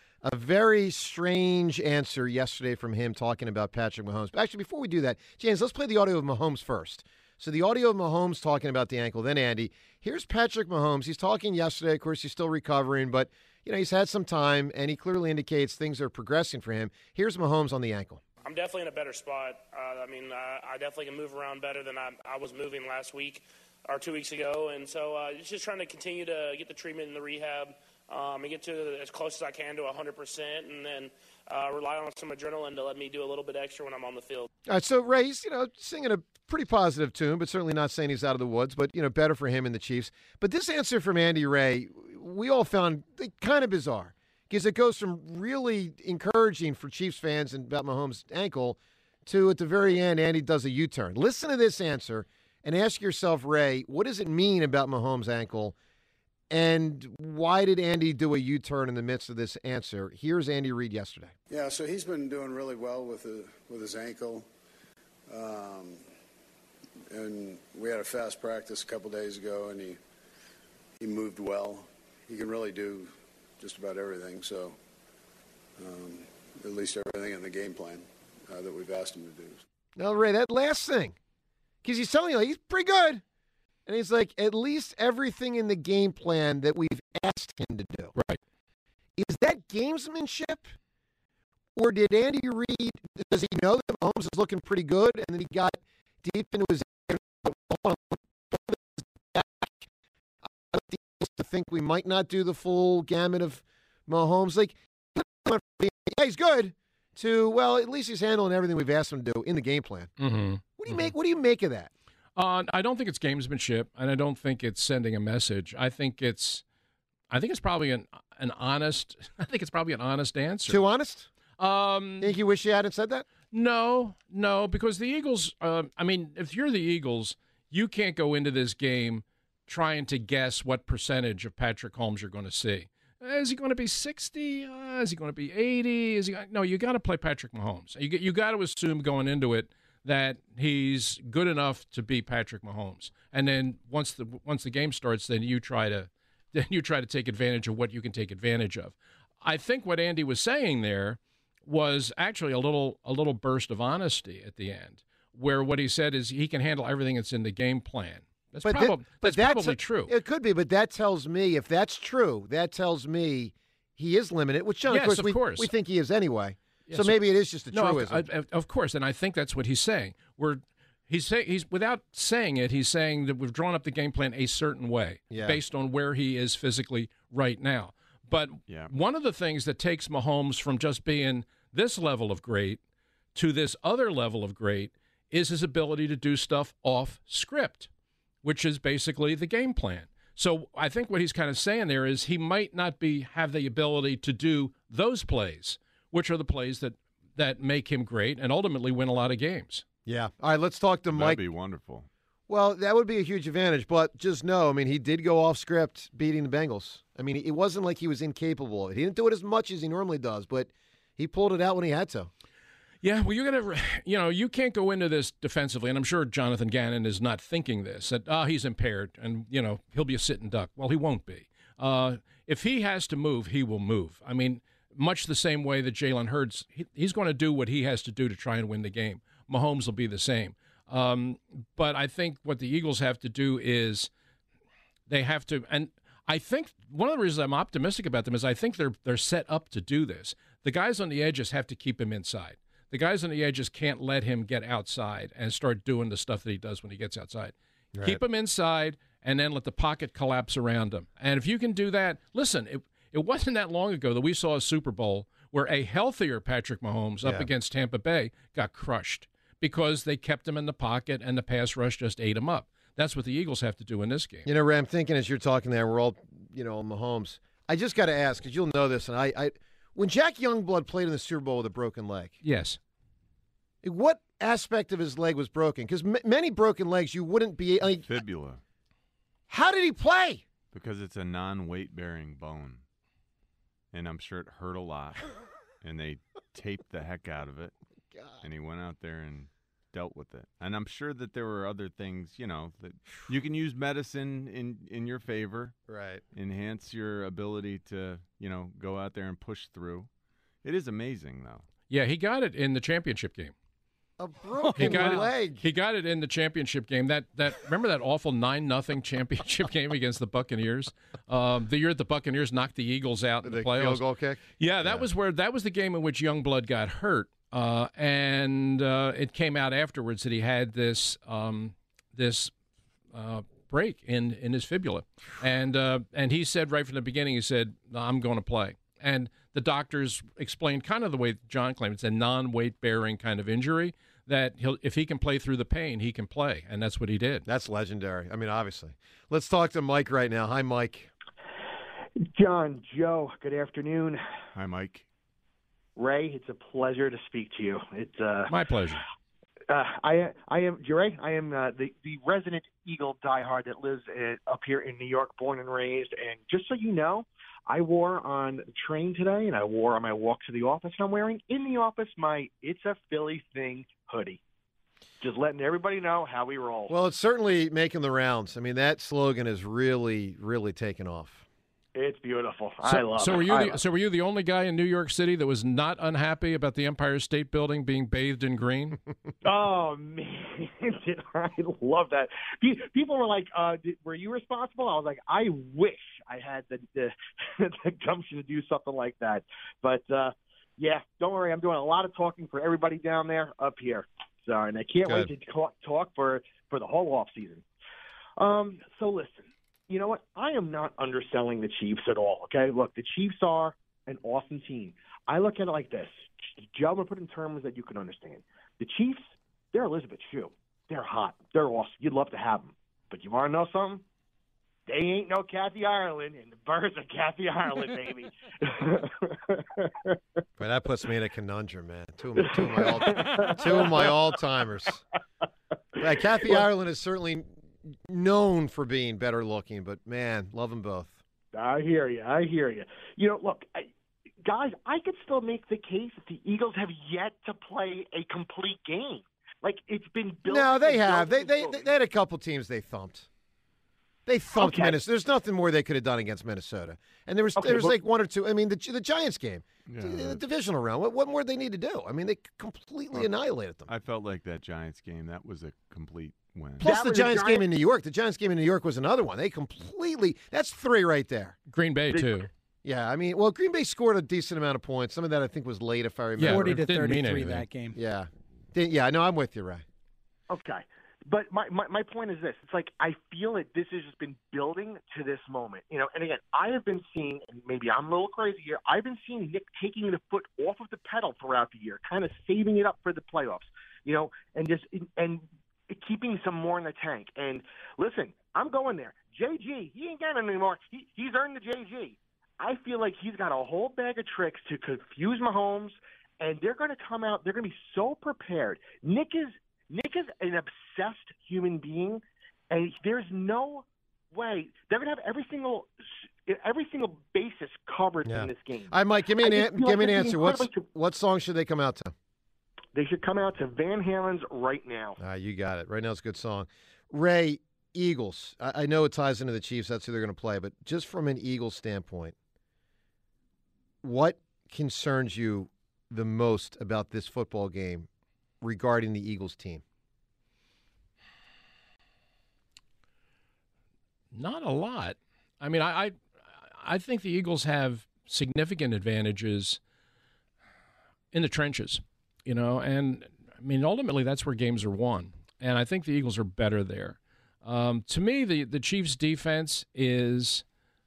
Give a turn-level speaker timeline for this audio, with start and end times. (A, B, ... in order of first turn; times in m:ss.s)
0:00.2-0:18.2 A
0:18.4-0:34.5 B
0:34.6-0:55.7 A
0:56.5-1:01.3 A
1:01.5-1:04.5 C
1:05.3-1:06.0 C
1:07.1-1:10.0 C
1:11.0-1:14.8 C
1:15.8-1:19.6 C
1:20.0-1:21.2 A
1:21.8-1:23.2 A
1:23.8-1:28.1 A
1:29.2-1:30.7 A
1:31.7-1:39.9 A
1:40.7-1:50.1 A
1:50.2-1:51.1 D
1:50.8-1:51.9 A
1:52.4-1:56.6 D
1:57.3-2:00.8 D
2:00.7-2:01.3 A
2:01.6-2:02.3 D
2:02.2-2:03.3 A
2:03.5-2:40.1 D
2:38.6-2:48.2 A
2:44.9-2:45.7 D
2:46.9-3:02.8 D
2:55.3-2:55.6 A
3:03.3-3:07.9 D
3:08.4-3:19.8 D
3:20.0-3:21.4 A
3:21.1-3:22.1 E
3:22.5-3:32.3 A
3:33.0-3:54.1 D
3:55.1-4:24.5 D
4:07.9-4:08.2 A
4:17.2-4:17.5 A
4:24.4-4:32.4 A
4:32.4-4:32.8 D
4:33.8-4:38.1 A
4:38.0-4:38.6 E
4:39.5-4:40.4 A
4:40.7-4:42.8 E
4:43.9-4:47.7 E
4:48.1-4:48.4 A
4:48.4-4:55.8 E
4:55.9-4:56.2 A
4:56.3-5:00.1 E
5:00.6-5:01.7 E
5:01.9-5:03.5 D
5:04.2-5:05.6 A
5:04.6-5:05.2 F
5:04.7-5:14.0 D
5:13.4-5:15.1 A
5:14.6-5:22.5 D
5:23.1-5:37.4 D
5:37.4-5:41.1 A
5:42.3-5:44.2 G
5:44.5-5:45.1 E
5:46.0-5:48.5 G
5:48.5-5:49.0 D
5:49.7-6:04.4 G
6:05.2-6:06.9 G
6:06.9-6:11.4 A
6:11.9-6:13.8 G
6:12.8-6:19.0 D
6:19.4-6:37.6 G
6:38.4-6:54.0 G
6:54.8-7:00.2 G
7:00.6-7:05.0 A
7:02.4-7:04.2 G
7:06.0-7:11.2 A
7:11.5-7:13.9 G
7:14.4-7:21.9 G
7:20.4-7:23.3 A
7:24.2-7:33.9 A
7:24.5-7:25.0 G
7:27.6-7:28.0 G
7:29.9-7:30.4 E
7:33.9-7:36.9 E
7:36.8-7:41.6 A
7:36.8-7:37.7 G
7:41.7-7:42.5 D
7:42.1-7:42.4 G
7:42.8-7:46.8 A
7:46.4-7:47.7 D
7:46.4-7:48.0 F
7:47.9-7:49.8 A
7:50.5-8:25.9 G
8:26.4-8:30.9 G
8:28.2-8:32.1 A
8:32.9-8:35.2 G
8:35.2-8:42.3 A
8:44.0-8:48.1 A
8:48.6-8:49.8 A
8:54.3-8:59.8 D
9:01.3-9:10.6 D